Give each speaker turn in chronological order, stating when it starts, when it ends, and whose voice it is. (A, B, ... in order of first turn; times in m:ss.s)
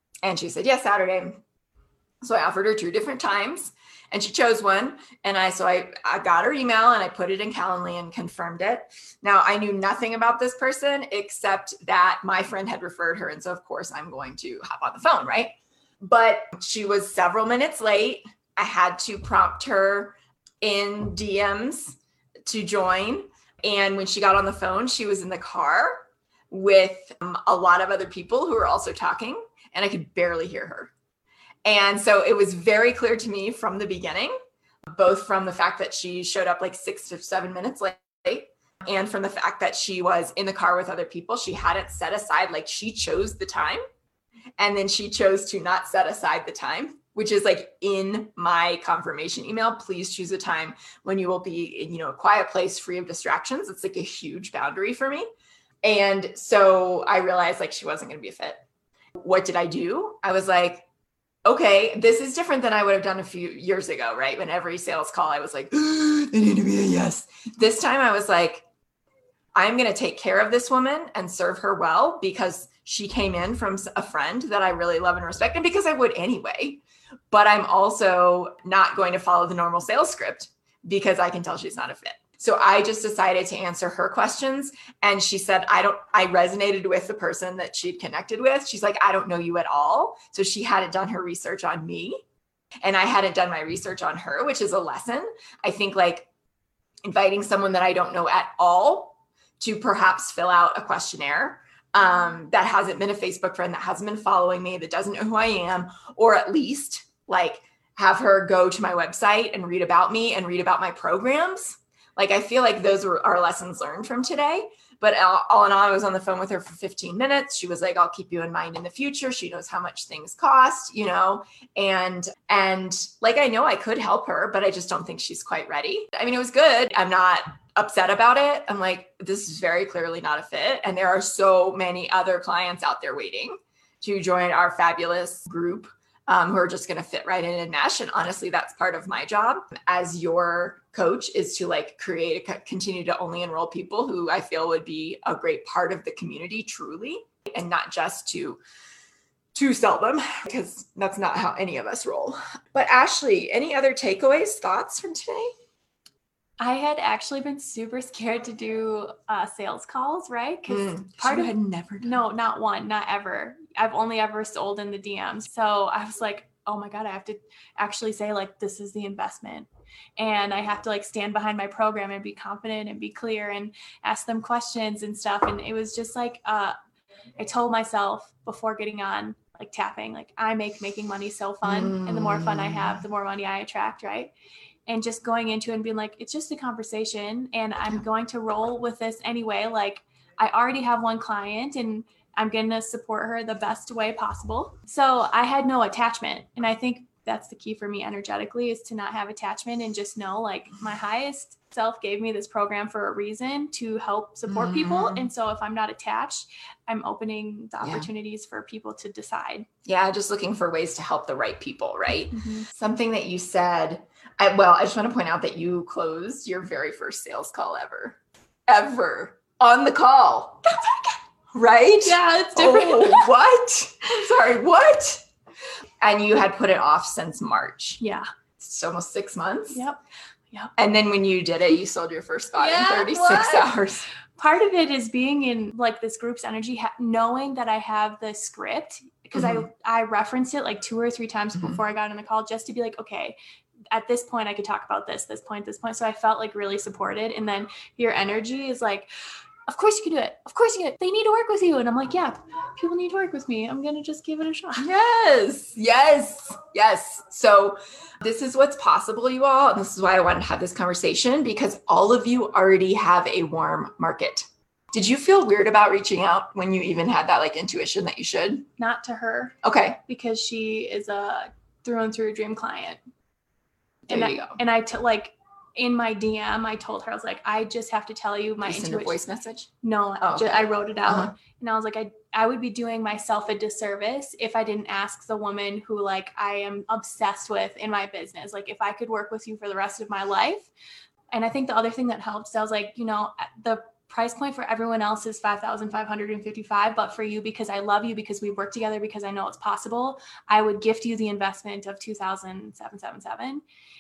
0:00.2-0:01.4 A
0:02.2-0:30.9 A
0:31.6-0:34.3 A
0:34.9-0:43.8 A
0:44.6-0:55.2 A
0:55.8-0:58.6 A
0:59.2-1:00.9 A
1:01.4-1:08.6 A
1:09.6-1:32.2 A
1:32.8-1:36.3 A
1:37.0-2:28.6 A
2:29.5-2:35.5 A
2:36.6-2:56.8 B
2:40.7-2:42.2 A
2:57.4-3:04.3 B
3:01.6-3:03.0 A
3:04.9-3:29.7 B
3:24.5-3:25.3 A
3:27.8-3:28.1 A
3:29.9-3:40.9 A
3:32.3-3:32.7 B
3:41.5-3:45.2 A
3:42.0-3:43.3 B
3:46.0-3:48.0 A
3:48.0-3:48.2 B
3:48.6-3:49.8 A
3:49.7-3:50.0 B
3:50.8-3:54.1 A
3:52.6-3:53.8 B
3:54.4-4:03.4 B
3:59.4-3:59.7 A
4:03.9-4:09.1 B
4:09.7-4:14.9 B
4:14.8-4:28.7 A
4:28.8-4:29.6 B
4:29.6-4:30.0 A
4:30.1-4:33.0 B
4:34.1-4:34.6 A
4:34.1-4:39.2 B
4:38.6-4:39.7 A
4:39.8-4:50.7 B
4:40.2-4:41.3 A
4:51.3-5:03.6 B